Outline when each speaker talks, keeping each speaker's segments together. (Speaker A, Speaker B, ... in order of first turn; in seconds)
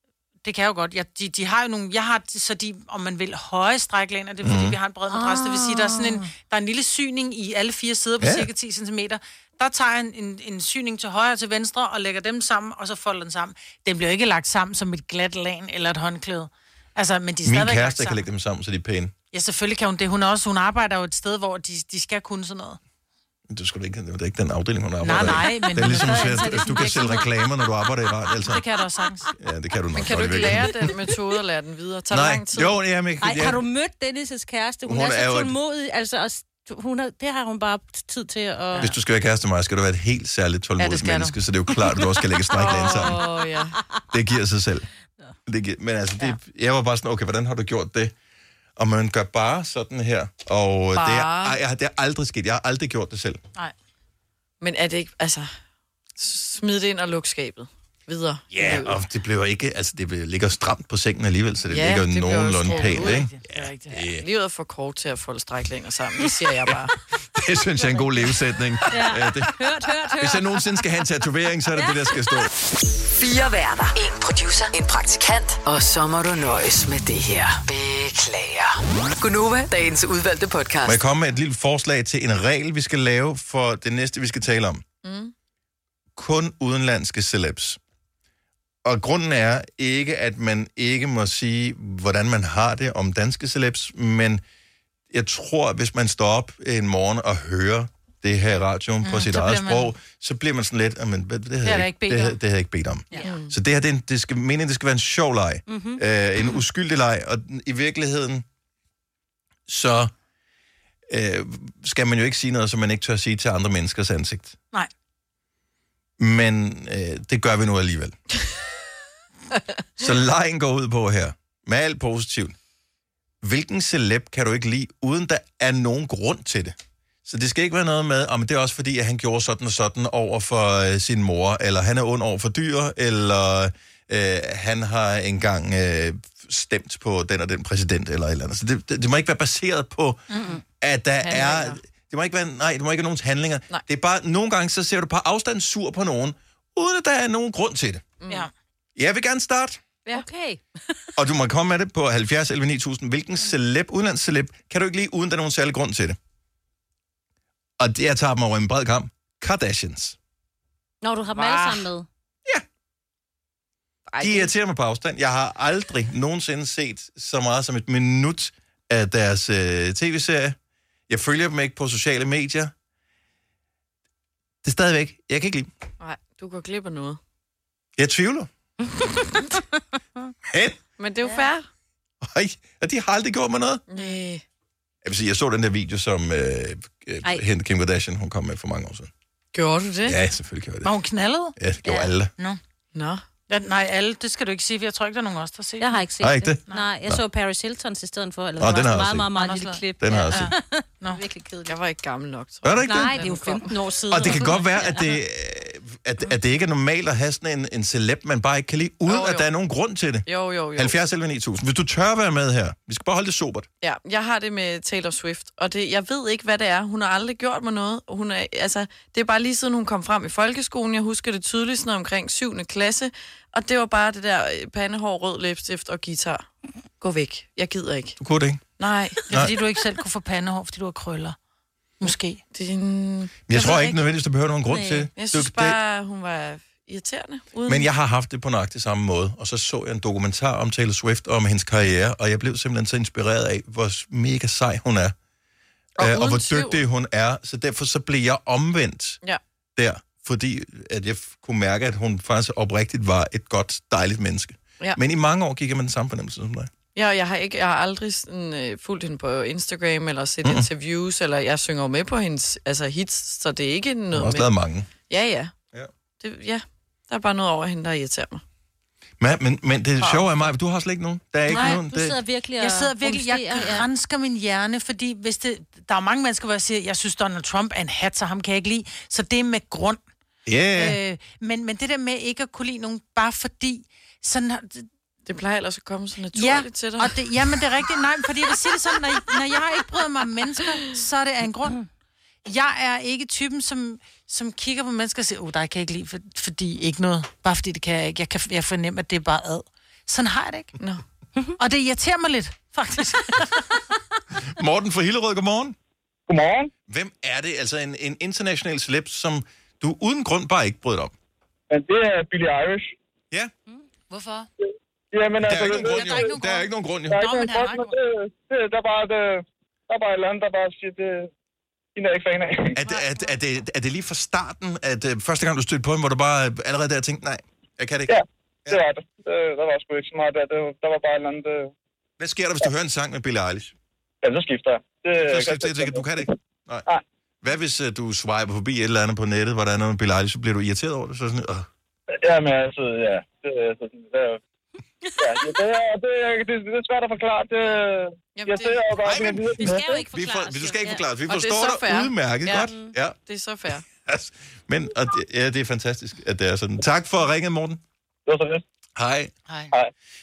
Speaker A: 0.4-18.2, 19.3-22.8, 25.0-27.3, 28.4-29.3, 40.8-41.3, 62.6-64.0, 99.0-99.9, 101.6-102.4, 140.3-140.6, 161.3-161.7, 190.8-191.5, 193.5-196.0, 199.3-201.2, 229.3-231.3, 232.0-232.4, 271.5-271.8, 272.6-280.0, 280.7-284.9, 286.3-291.8, 292.4-300.7, 301.6-303.6, 314.1-314.5, 315.5-318.0
Speaker B: 4.4-4.8, 8.2-8.5, 17.4-19.1, 23.5-28.6, 29.4-30.8, 32.1-33.6, 34.9-35.5, 38.8-43.2, 44.1-44.9, 45.5-48.1, 48.8-53.4, 58.5-64.2, 66.6-69.5, 70.2-72.5, 80.8-84.8, 86.2-87.8, 88.8-94.4, 95.1-108.4, 109.7-110.1, 111.1-114.5, 116.2-118.1, 120.0-122.5, 123.4-140.2, 140.8-148.1, 148.9-149.8, 151.2-156.2, 157.8-160.2, 164.2-170.6, 171.1-172.7, 174.6-175.7, 178.0-178.5, 180.5-180.8, 182.2-183.8, 185.0-189.1, 190.1-190.9, 191.6-192.3, 196.2-197.2, 198.6-199.3, 200.0-200.5, 202.6-203.2, 204.1-213.7, 228.2-228.6, 233.5-235.8, 237.7-245.1, 246.0-249.2, 249.8-256.7, 260.4-260.7, 264.1-264.9, 269.2-272.2, 280.4-281.0, 304.5-305.8, 306.9-311.1, 315.4-317.2, 322.7-328.8, 332.2-333.7, 335.2-336.8, 337.4-341.7, 349.0-353.2, 353.9-357.8, 358.9-359.3
Speaker C: 5.2-6.2, 33.2-38.9, 68.9-70.5, 105.7-106.0, 150.1-150.6, 161.0-162.1, 178.9-179.2, 191.8-192.1, 195.8-201.8, 202.8-205.2, 233.6-234.0, 234.7-235.1, 271.5-273.9, 349.5-351.0, 352.6-352.9
Speaker D: 29.9-32.7, 42.6-43.8, 50.9-51.6, 54.6-55.5, 56.1-59.0, 61.7-63.2, 64.2-67.0, 85.0-85.3, 103.2-103.5, 141.3-141.7, 148.2-148.5, 164.1-164.5, 176.0-177.2, 181.0-181.7, 183.9-184.4, 189.5-190.2, 192.9-193.2, 201.7-203.7, 209.1-209.5, 210.2-210.9, 213.8-226.4, 227.0-228.2, 228.8-229.2, 232.5-233.5, 235.2-237.9, 246.0-246.8, 256.9-264.5, 265.1-265.5, 266.2-268.4, 285.2-287.6, 348.3-348.9, 351.3-352.7, 353.2-353.9
Speaker E: 73.0-81.0
Speaker F: 306.3-306.7, 311.7-312.9, 315.1-316.3, 317.1-321.3, 321.9-322.7, 328.1-331.7, 334.2-336.3, 342.2-344.4, 345.2-350.1, 358.3-358.6